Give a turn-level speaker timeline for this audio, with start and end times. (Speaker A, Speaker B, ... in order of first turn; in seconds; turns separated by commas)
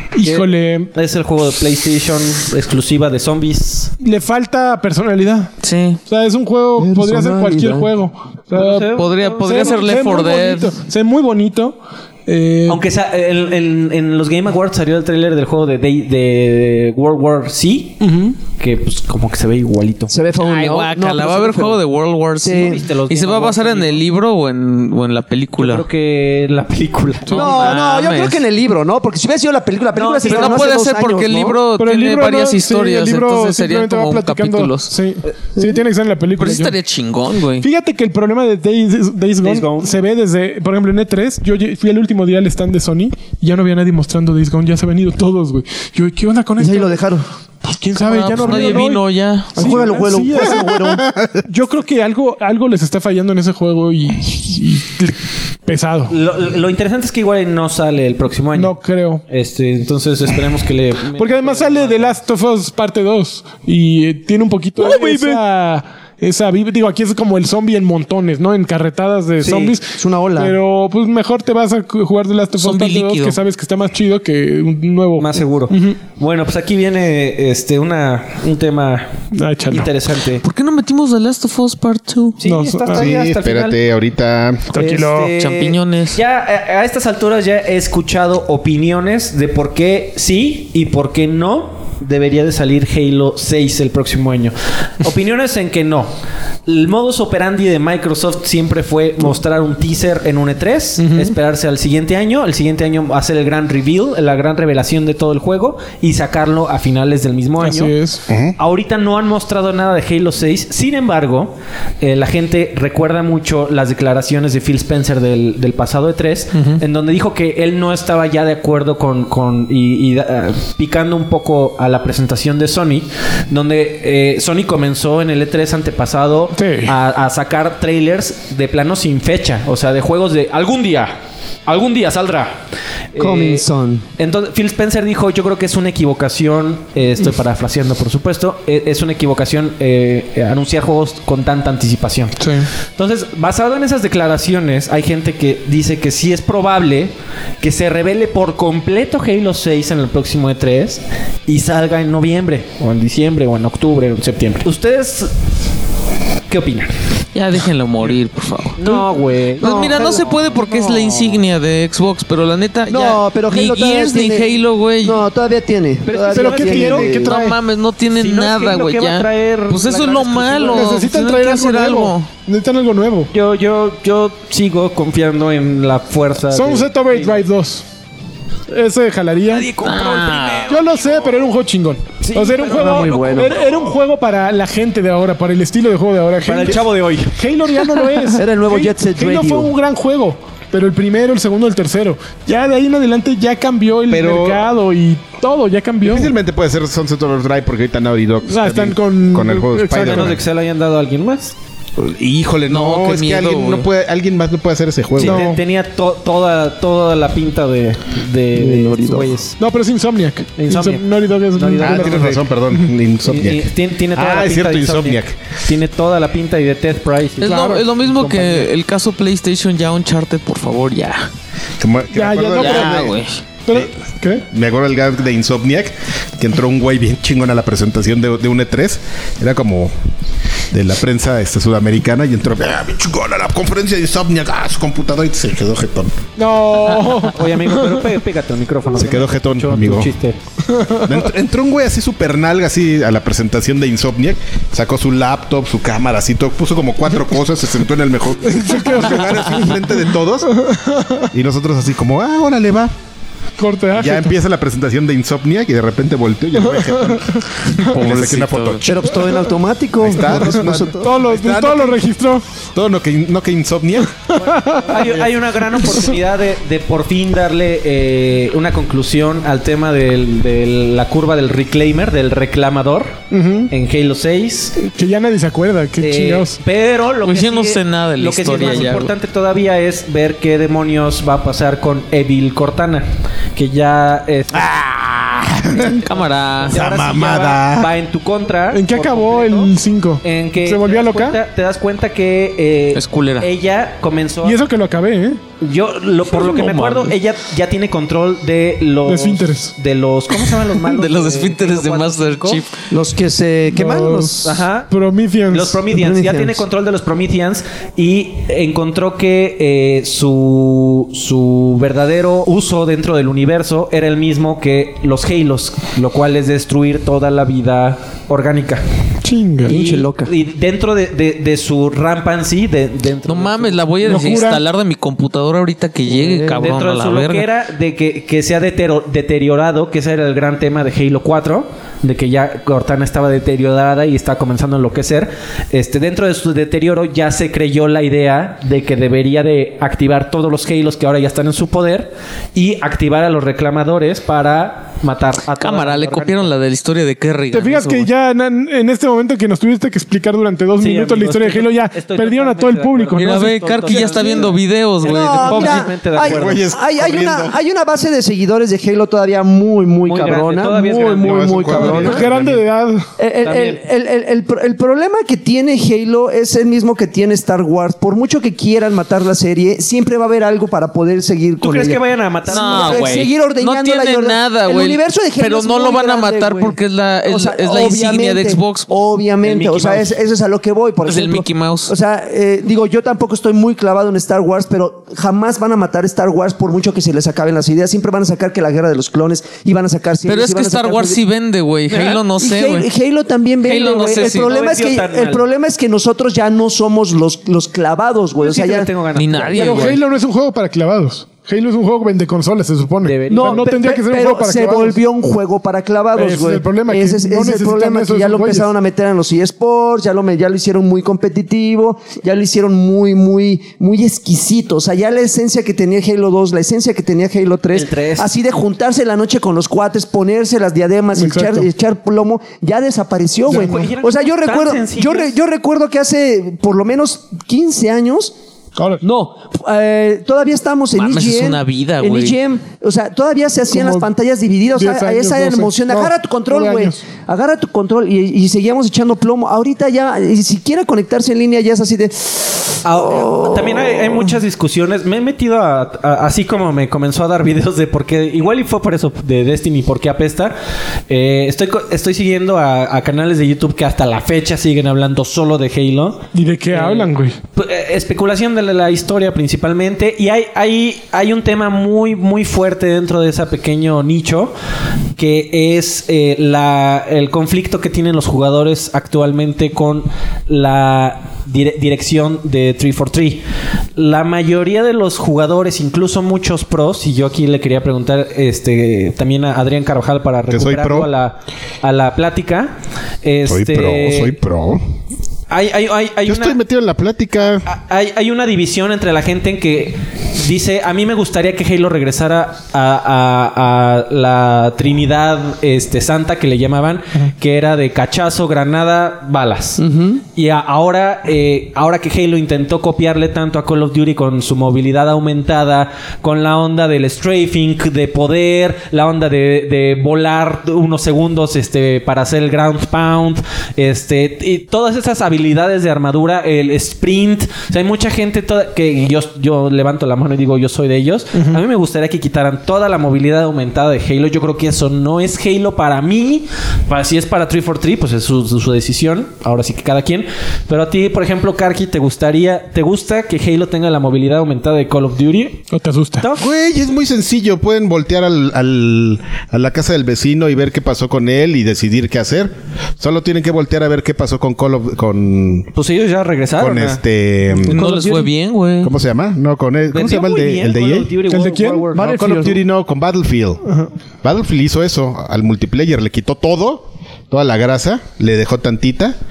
Speaker A: 0.1-0.9, Speaker B: 0.2-3.9, Speaker A: 4.0-5.5, Speaker C: 5.6-6.0, Speaker A: 6.1-12.8, Speaker D: 6.8-7.9, Speaker B: 8.5-10.0, Speaker C: 8.9-10.7, Speaker B: 12.7-20.1, Speaker A: 18.0-18.4, Speaker D: 20.1-21.8, Speaker C: 20.4-25.8, Speaker D: 22.4-22.8, Speaker B: 22.5-24.0, Speaker B: 25.6-27.8, Speaker C: 27.3-28.4, Speaker D: 27.3-31.6, Speaker B: 29.9-30.7, Speaker C: 30.2-34.9, Speaker A: 31.8-36.8, Speaker C: 36.4-37.7, Speaker A: 37.6-47.0, Speaker B: 39.4-40.0, Speaker D: 46.6-47.2, Speaker A: 47.6-56.1, Speaker C: 48.0-49.7, Speaker B: 48.4-48.7, Speaker D: 49.5-51.1, Speaker E: 50.5-51.4, Speaker B: 56.1-58.7, Speaker A: 58.5-59.2, Speaker B: 59.3-62.1, Speaker A: 61.1-76.0, Speaker D: 64.8-65.4, Speaker B: 64.8-65.3, Speaker B: 69.4-69.8, Speaker D: 69.9-70.6, Speaker C: 72.5-73.4, Speaker B: 75.2-79.1, Speaker A: 79.3-79.9, Speaker B: 79.7-80.4, Speaker C: 80.4-82.4, Speaker B: 82.4-83.8, Speaker A: 82.4-83.1, Speaker E: 82.9-84.8, Speaker A: 84.7-85.3, Speaker B: 84.7-96.1, Speaker C: 85.3-86.2, Speaker B: 96.7-107.9, Speaker A: 101.0-101.3, Speaker A: 107.6-108.2, Speaker E: 108.3-108.5, Speaker B: 108.6-131.1, Speaker A: 116.5-116.8, Speaker A: 126.5-127.0, Speaker B: 131.7-132.6, Speaker B: 133.1-133.7, Speaker D: 133.2-134.0, Speaker B: 134.2-155.3, Speaker A: 142.4-142.7, Speaker B: 156.5-156.9, Speaker C: 157.3-159.0, Speaker B: 158.8-161.4, Speaker C: 159.6-165.2, Speaker D: 159.6-160.4, Speaker D: 162.9-167.3, Speaker B: 166.0-167.1, Speaker A: 166.3-167.6, Speaker C: 167.2-172.3, Speaker B: 168.1-171.0, Speaker A: 170.6-173.3, Speaker B: 173.3-177.4, Speaker A: 176.5-177.8, Speaker A: 178.7-179.8, Speaker B: 179.5-180.7, Speaker C: 179.7-180.8, Speaker A: 180.7-196.3, Speaker B: 182.2-183.8, Speaker D: 182.6-183.6, Speaker B: 186.4-187.3, Speaker D: 188.4-189.7, Speaker E: 194.1-194.7, Speaker E: 196.0-200.4, Speaker A: 198.5-200.4, Speaker B: 199.9-201.5, Speaker E: 202.0-205.4, Speaker C: 202.7-203.9, Speaker B: 205.2-209.6, Speaker A: 205.2-205.6, Speaker D: 208.6-209.3, Speaker A: 209.6-212.9, Speaker B: 210.6-212.4, Speaker E: 211.8-215.3, Speaker B: 213.2-218.7, Speaker C: 217.4-221.3, Speaker A: 217.4-217.8, Speaker E: 221.8-223.2, Speaker A: 222.1-223.1, Speaker C: 222.6-223.4, Speaker A: 223.7-224.4, Speaker E: 224.5-229.9, Speaker E: 230.7-236.2, Speaker A: 236.4-238.0, Speaker B: 237.2-240.4, Speaker E: 238.9-240.1, Speaker A: 240.7-241.2, Speaker E: 241.0-250.5, Speaker A: 248.5-249.9, Speaker A: 250.4-251.3, Speaker E: 251.3-252.9, Speaker A: 253.6-254.3, Speaker E: 253.9-259.0, Speaker A: 256.6-257.9, Speaker C: 257.7-258.9, Speaker D: 258.8-261.1, Speaker E: 260.0-262.0, Speaker A: 260.3-262.4, Speaker E: 262.7-264.2, Speaker A: 264.3-265.2, Speaker B: 264.4-274.7, Speaker A: 265.8-266.1, Speaker A: 273.3-273.7, Speaker A: 274.8-276.6, Speaker B: 276.0-284.7, Speaker C: 277.2-279.1, Speaker E: 284.5-286.0, Speaker C: 285.8-286.8, Speaker B: 285.8-289.7, Speaker E: 286.7-287.9, Speaker A: 288.7-291.4, Speaker B: 290.2-294.6, Speaker C: 292.9-293.5, Speaker A: 294.4-295.4, Speaker B: 295.6-302.6, Speaker C: 296.2-297.1, Speaker A: 299.0-299.7, Speaker C: 300.3-302.8, Speaker D: 302.9-304.6, Speaker A: 303.7-305.8, Speaker B: 304.4-304.9, Speaker B: 305.5-318.8, Speaker D: 305.9-306.6, Speaker A: 319.2-319.8, Speaker D: 319.6-320.3, Speaker B: 319.7-324.2, Speaker C: 323.2-327.4, Speaker A: 324.0-324.6, Speaker D: 326.1-326.7, Speaker B: 326.6-346.5, Speaker C: 345.5-348.1, Speaker A: 347.5-354.5, Speaker B: 350.8-356.6, Speaker C: 353.1-355.9, Speaker D: 355.0-362.2, Speaker E: 356.2-357.6, Speaker B: 360.0-362.4, Speaker E: 361.2-362.6, Speaker A: 361.8-363.1, Speaker D: 363.2-391.2, Speaker B: 363.4-363.8, Speaker B: 371.6-373.3, Speaker C: 372.5-378.9, Speaker B: 379.4-380.2, Speaker C: 381.1-381.9, Speaker C: 390.2-392.9, Speaker D: 391.9-398.9, Speaker C: 393.6-394.6, Speaker B: 394.1-395.4, Speaker B: 398.4-399.9, Speaker C: 399.1-400.0, Speaker A: 399.5-405.0, Speaker B: 403.0-403.7, Speaker D: 403.3-428.3, Speaker A: 406.1-408.7, Speaker B: 417.7-418.3, Speaker A: 421.1-421.7, Speaker B: 423.4-425.4, Speaker A: 428.8-429.0, Speaker D: 429.0-444.2, Speaker C: 430.9-432.4, Speaker A: 433.7-434.1, Speaker A: 434.7-437.0, Speaker B: 442.8-450.5, Speaker B: 451.1-464.5, Speaker A: 456.3-457.4, Speaker B: 465.2-473.4, Speaker B: 473.9-482.7, Speaker E: 480.5-481.1, Speaker B: 483.2-484.3, Speaker E: 483.5-484.8, Speaker B: 485.5-486.6, Speaker E: 486.2-487.7, Speaker B: 487.7-499.8, Speaker D: 499.8-500.2, Speaker B: 500.3-535.7, Speaker A: 521.3-521.6, Speaker A: 535.7-536.2, Speaker B: 536.2-536.5, Speaker E: 536.3-545.7, Speaker B: 545.7-547.0, Speaker E: 546.6-547.8, Speaker D: 547.6-548.3, Speaker C: 547.7-548.9, Speaker E: 548.8-551.1, Speaker B: 549.9-552.0, Speaker A: 551.3-552.5, Speaker D: 551.9-552.6, Speaker E: 552.0-553.6, Speaker A: 553.6-553.9, Speaker E: 554.2-559.1